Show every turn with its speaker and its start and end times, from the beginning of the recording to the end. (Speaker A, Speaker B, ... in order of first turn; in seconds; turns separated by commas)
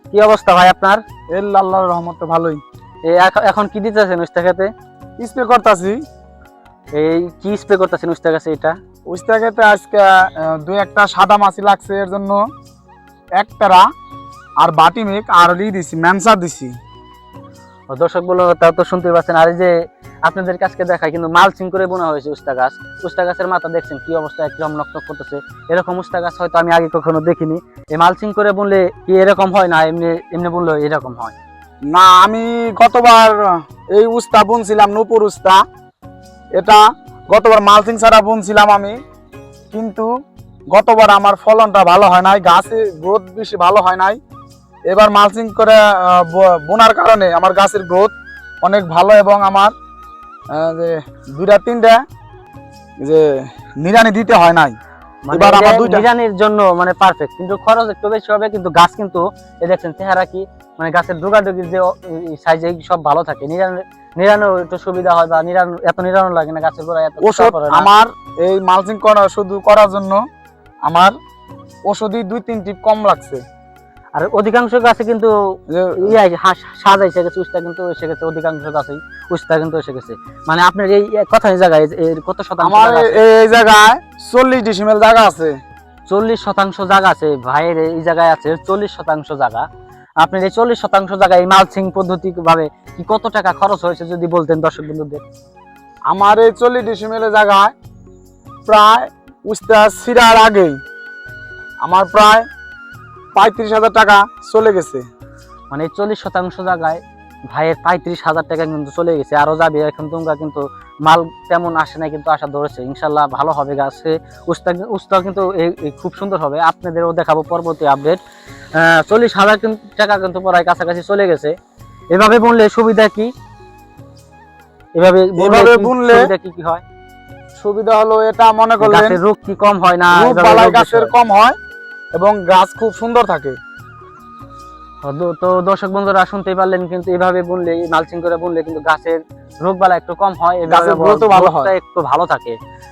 Speaker A: 0.1-1.0, Speaker B: 1.3-2.6, Speaker A: 3.0-4.7, Speaker B: 5.2-6.0, Speaker A: 6.9-8.8, Speaker B: 9.1-12.4, Speaker B: 13.4-13.8, Speaker B: 14.6-16.7, Speaker A: 17.9-19.7, Speaker A: 20.2-31.3, Speaker B: 31.9-35.6, Speaker B: 36.5-39.0, Speaker B: 39.7-40.1, Speaker B: 40.7-44.2, Speaker B: 44.9-49.7, Speaker B: 50.5-52.0, Speaker B: 53.0-54.7, Speaker A: 55.3-67.9, Speaker B: 55.3-56.1, Speaker B: 67.2-70.2, Speaker B: 70.8-71.1, Speaker B: 71.9-73.4, Speaker A: 74.2-83.2, Speaker B: 75.7-76.1, Speaker B: 82.6-85.5, Speaker A: 86.1-89.7, Speaker A: 90.2-95.2, Speaker B: 96.1-97.7, Speaker B: 98.7-100.8, Speaker B: 101.8-102.5, Speaker B: 103.3-105.0, Speaker A: 105.7-118.2, Speaker A: 118.7-121.5, Speaker A: 122.1-123.3, Speaker A: 125.0-126.8, Speaker B: 125.4-126.3, Speaker B: 127.6-129.2, Speaker A: 128.8-131.1, Speaker B: 130.1-131.6, Speaker B: 132.2-133.6, Speaker A: 135.0-142.6, Speaker B: 140.7-141.7